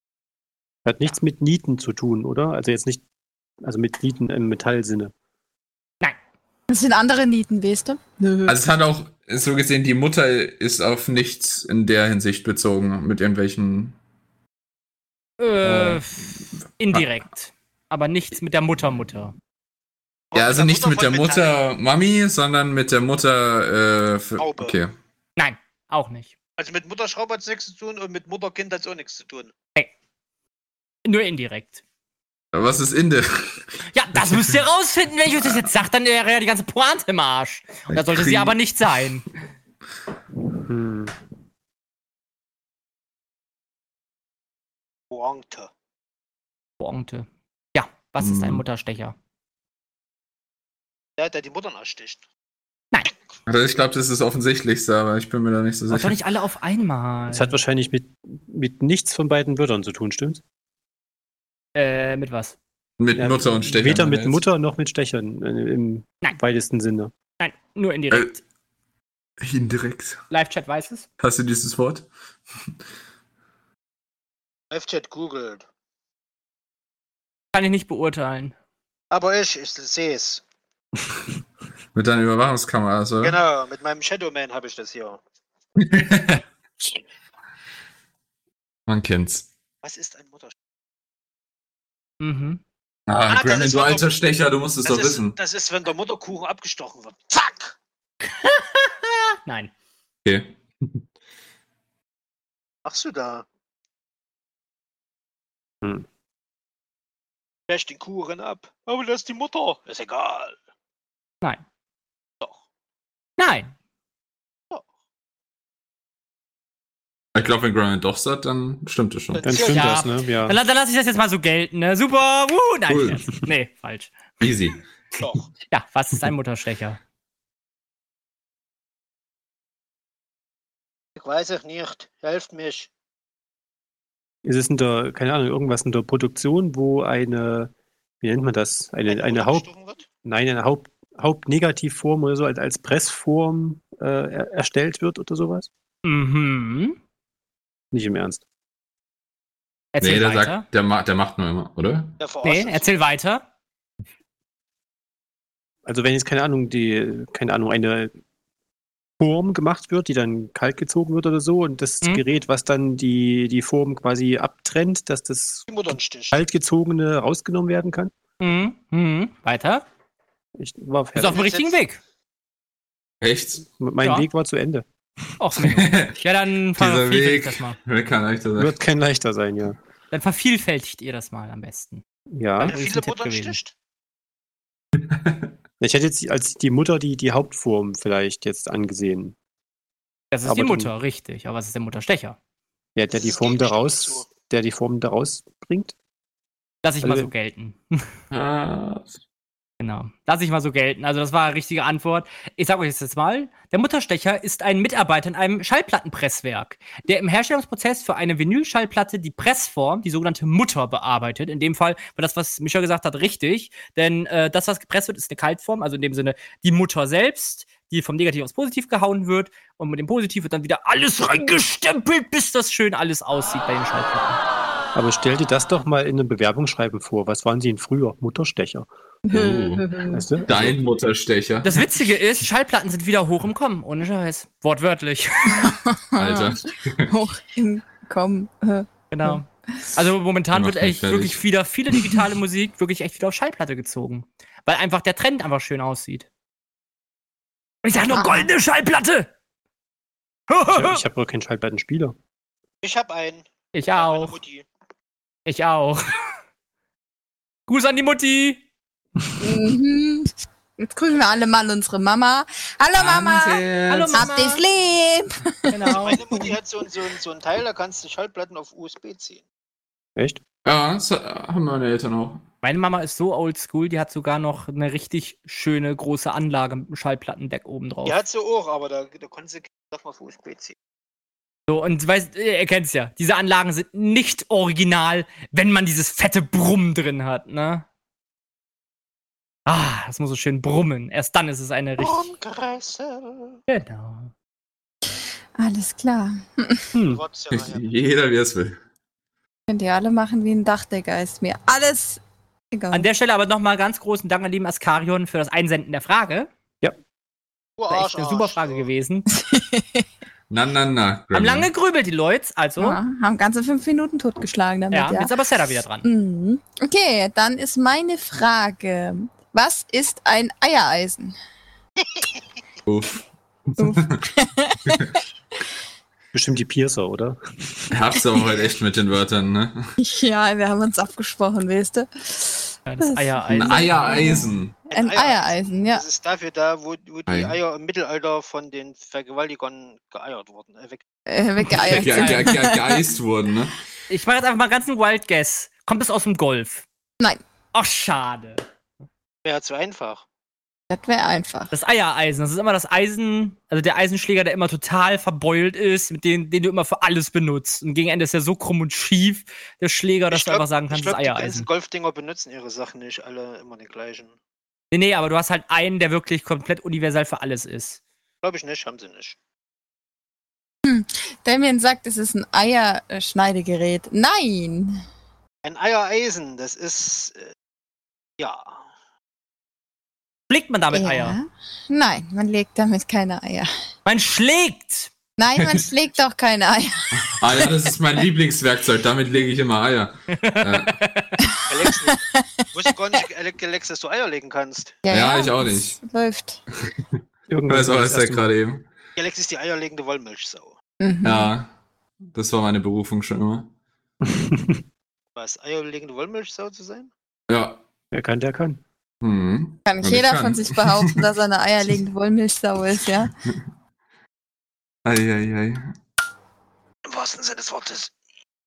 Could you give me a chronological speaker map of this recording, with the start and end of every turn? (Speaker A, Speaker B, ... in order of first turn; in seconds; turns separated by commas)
Speaker A: 0.8-3.0, Speaker A: 3.6-5.1, Speaker B: 6.7-8.6, Speaker C: 8.4-13.9, Speaker D: 15.4-19.3, Speaker C: 15.6-16.1, Speaker E: 20.3-21.5, Speaker C: 20.3-24.9, Speaker E: 24.4-24.8, Speaker D: 25.4-26.3, Speaker E: 26.6-29.5, Speaker D: 31.1-31.8, Speaker C: 32.5-34.5, Speaker D: 33.9-39.3, Speaker C: 35.4-35.7, Speaker C: 37.9-38.6, Speaker A: 40.5-41.1, Speaker E: 45.1-45.7, Speaker D: 46.8-49.1, Speaker C: 48.2-48.6, Speaker E: 51.2-52.2, Speaker C: 53.5-56.1, Speaker D: 55.9-57.5, Speaker A: 57.3-60.4, Speaker D: 61.7-62.6, Speaker C: 63.0-64.4, Speaker A: 63.1-67.1, Speaker D: 67.4-68.4, Speaker C: 69.4-70.2, Speaker D: 70.3-71.1, Speaker C: 71.2-72.1, Speaker E: 74.7-75.6, Speaker D: 77.5-78.5, Speaker E: 79.1-80.4, Speaker C: 81.9-83.4, Speaker E: 83.2-85.2, Speaker C: 85.8-86.4, Speaker C: 88.9-89.5, Speaker E: 89.8-90.5, Speaker D: 92.2-92.6, Speaker C: 93.1-95.3, Speaker E: 93.3-94.1, Speaker E: 94.8-97.7, Speaker D: 98.2-99.7, Speaker C: 100.2-101.0, Speaker E: 102.8-103.4, Speaker E: 107.7-110.5, Speaker D: 113.4-113.7, Speaker C: 117.3-119.5, Speaker E: 119.3-120.0, Speaker A: 119.4-120.6, Speaker D: 119.6-124.2, Speaker C: 122.9-123.2, Speaker C: 124.4-124.8, Speaker E: 125.2-125.5, Speaker D: 125.7-127.0, Speaker E: 131.2-132.9, Speaker A: 134.4-139.7, Speaker E: 139.1-140.1, Speaker A: 140.2-145.7, Speaker D: 146.0-147.0, Speaker A: 147.9-148.4, Speaker D: 149.9-150.6, Speaker C: 150.0-152.2, Speaker E: 152.2-152.9, Speaker D: 152.4-153.4, Speaker A: 155.8-158.1, Speaker A: 159.2-168.1, Speaker E: 165.7-166.4, Speaker D: 168.4-169.8, Speaker A: 170.6-171.5, Speaker D: 171.2-172.0, Speaker E: 171.3-171.8, Speaker C: 173.2-173.6, Speaker A: 173.6-174.8, Speaker D: 174.0-174.3, Speaker D: 175.4-177.8, Speaker C: 175.6-176.2, Speaker C: 176.8-178.7, Speaker A: 178.6-179.8, Speaker D: 180.1-182.0, Speaker A: 182.3-182.7, Speaker D: 182.6-183.6, Speaker E: 182.7-183.7, Speaker C: 184.9-185.5, Speaker A: 185.8-189.3, Speaker D: 190.3-192.4, Speaker A: 190.4-190.9, Speaker A: 192.9-195.9, Speaker E: 193.1-194.3, Speaker D: 196.8-198.1, Speaker A: 197.0-197.3, Speaker C: 198.3-199.1, Speaker D: 199.8-224.4, Speaker A: 224.9-228.9, Speaker B: 229.2-230.2, Speaker C: 229.3-229.9, Speaker A: 230.1-230.8, Speaker C: 230.4-231.8, Speaker D: 231.6-235.7, Speaker B: 235.5-239.4, Speaker C: 236.2-237.1, Speaker D: 239.1-246.3, Speaker C: 240.5-241.4, Speaker D: 247.8-249.3, Speaker B: 248.1-248.5, Speaker D: 250.5-251.0, Speaker A: 250.7-252.2, Speaker E: 252.8-254.6, Speaker D: 253.7-254.4, Speaker D: 255.4-256.1, Speaker D: 257.7-258.6, Speaker B: 259.4-266.5, Speaker E: 261.1-261.4, Speaker C: 262.9-264.3, Speaker D: 263.9-264.6, Speaker D: 265.7-266.2, Speaker E: 265.9-269.4, Speaker C: 270.6-272.4, Speaker D: 272.6-278.2, Speaker E: 278.0-280.8, Speaker D: 281.7-287.8, Speaker D: 289.7-292.3, Speaker E: 292.0-293.6, Speaker D: 293.7-294.3, Speaker B: 295.6-296.9, Speaker A: 296.9-297.2, Speaker E: 297.1-297.9, Speaker C: 297.5-298.8, Speaker B: 299.7-302.2, Speaker B: 302.7-303.1, Speaker D: 302.9-306.5, Speaker E: 307.8-308.9, Speaker D: 307.9-309.2, Speaker B: 309.3-310.0, Speaker C: 310.5-311.7, Speaker D: 311.3-313.0, Speaker B: 312.8-315.3, Speaker D: 314.9-316.1, Speaker B: 316.0-321.3, Speaker C: 322.9-324.1, Speaker B: 323.8-325.1, Speaker A: 326.3-327.9, Speaker C: 327.9-329.9, Speaker B: 330.0-336.0, Speaker D: 332.9-334.6, Speaker C: 333.5-334.7, Speaker E: 334.9-341.0, Speaker C: 337.3-337.6, Speaker B: 341.3-343.1, Speaker C: 341.7-343.8, Speaker D: 341.7-342.6, Speaker D: 344.1-346.9, Speaker D: 347.7-348.6, Speaker E: 349.4-350.2, Speaker B: 350.9-351.7, Speaker D: 351.7-361.7, Speaker E: 360.3-364.3, Speaker D: 364.9-368.0, Speaker E: 368.4-369.4, Speaker B: 370.8-375.0, Speaker E: 375.6-377.5, Speaker E: 378.4-378.8, Speaker D: 380.5-381.4, Speaker B: 380.9-383.7, Speaker D: 384.1-385.1, Speaker B: 385.4-387.7, Speaker C: 385.6-385.8, Speaker C: 387.2-391.0, Speaker D: 390.3-391.4, Speaker E: 391.7-392.2, Speaker B: 391.7-392.4, Speaker E: 392.7-395.0, Speaker B: 395.0-396.6, Speaker C: 395.1-396.0, Speaker A: 397.5-398.5, Speaker C: 397.7-398.9, Speaker E: 399.1-400.8, Speaker B: 401.0-401.5, Speaker C: 401.2-401.7, Speaker C: 402.3-403.7, Speaker A: 404.2-404.8, Speaker E: 405.4-407.1, Speaker C: 407.5-407.8, Speaker A: 408.1-408.8, Speaker C: 409.2-411.2, Speaker B: 409.8-413.3, Speaker C: 415.0-415.9, Speaker E: 417.1-418.1